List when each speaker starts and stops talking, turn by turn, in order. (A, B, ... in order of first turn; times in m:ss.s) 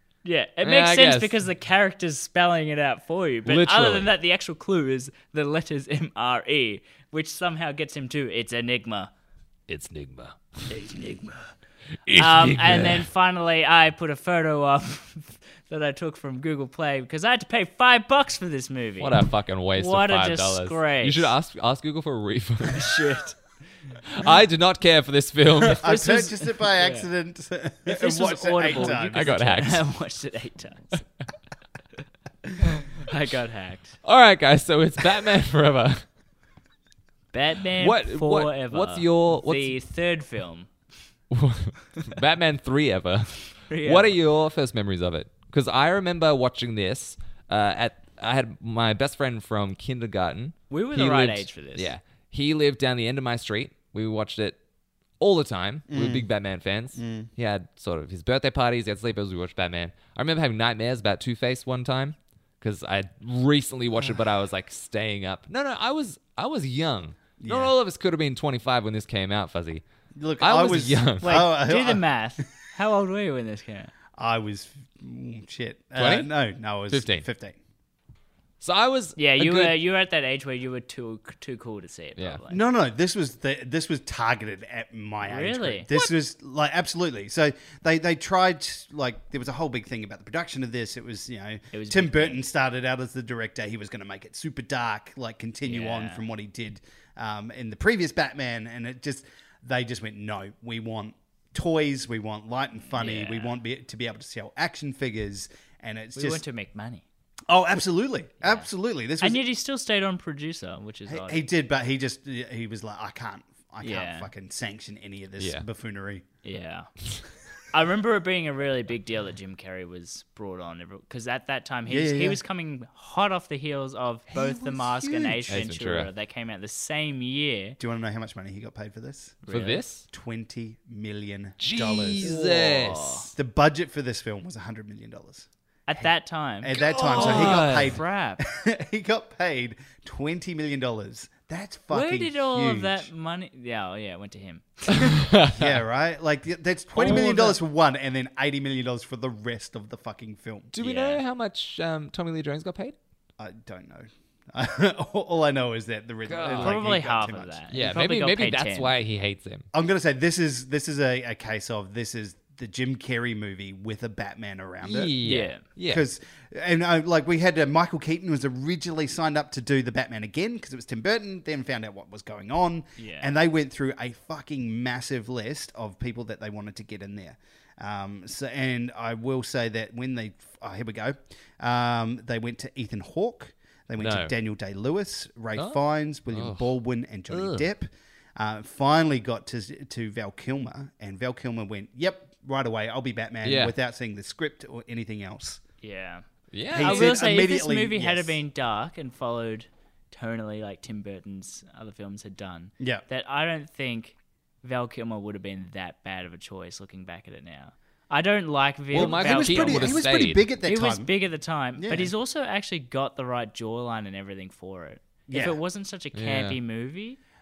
0:00.2-0:09.1 A
0:00.6-0:01.3 B
0:03.4-0:04.1 B
0:09.7-0:10.7 B
0:10.7-0:11.5 A
0:12.0-0:13.0 B
0:12.2-0:21.3 A
0:19.0-0:23.0 B
0:22.7-0:23.6 A
0:24.1-0:25.9 B
0:25.7-0:29.3 C
0:25.8-0:27.1 A
0:27.8-0:31.0 A
0:28.8-0:29.8 B
0:32.9-0:34.0 A
0:34.0-0:36.0 B
0:37.3-0:40.7 A
0:37.8-0:39.7 B
0:41.3-0:54.6 B
0:43.7-0:44.2 A
0:50.7-0:51.9 A
0:55.2-1:09.8 B
0:55.9-0:56.3 C
0:56.9-0:57.3 C
1:07.4-1:07.7 C
1:10.2-1:12.0 C
1:10.4-1:11.4 B
1:11.2-1:13.9 A
1:14.2-1:17.6 C
1:16.0-1:16.3 B
1:16.9-1:17.2 B
1:18.6-1:19.8 B
1:19.2-1:22.6 A
1:22.5-1:46.4 C
1:25.2-1:25.9 A
1:31.7-1:32.4 A
1:35.6-1:36.2 A
1:42.9-1:43.5 A
1:46.2-1:47.0 A
1:47.5-1:49.4 C
1:48.4-1:48.7 A
1:49.2-1:51.4 A
1:51.1-1:56.2 C
1:53.8-1:54.3 A
1:55.4-1:55.6 B
1:56.4-1:56.9 A
1:57.7-2:07.8 A
2:01.9-2:02.4 C
2:04.3-2:05.7 C
2:05.5-2:06.1 B
2:07.8-2:09.4 C
2:09.4-2:09.8 A
2:09.5-2:10.0 B
2:10.1-2:12.4 C
2:11.6-2:13.3 B
2:12.2-2:13.3 A
2:13.3-2:15.5 C
2:15.9-2:18.4 A
2:16.6-2:23.1 C
2:16.8-2:18.0 B
2:21.9-2:25.2 A
2:25.0-2:25.8 B
2:25.5-2:30.7 C
2:27.0-2:27.6 A
2:27.0-2:27.5 B
2:30.7-2:33.0 B
2:30.8-2:31.2 A
2:33.4-2:37.6 C
2:36.3-2:36.8 B
2:36.6-2:38.9 A
2:37.7-2:39.6 B
2:39.7-2:45.2 C
2:44.8-2:46.0 B
2:45.2-2:45.6 A
2:45.8-3:15.6 C
2:53.0-2:53.3 A
3:04.0-3:04.3 B
3:06.3-3:06.7 B
3:07.3-3:07.7 B
3:13.4-3:13.7 B
3:15.8-3:30.1 A
3:16.5-3:17.2 B
3:16.7-3:18.4 C
3:28.9-3:30.5 B
3:28.9-3:31.1 C
3:30.6-3:37.2 A
3:31.8-3:32.1 C
3:35.3-3:35.6 C
3:36.1-3:36.6 B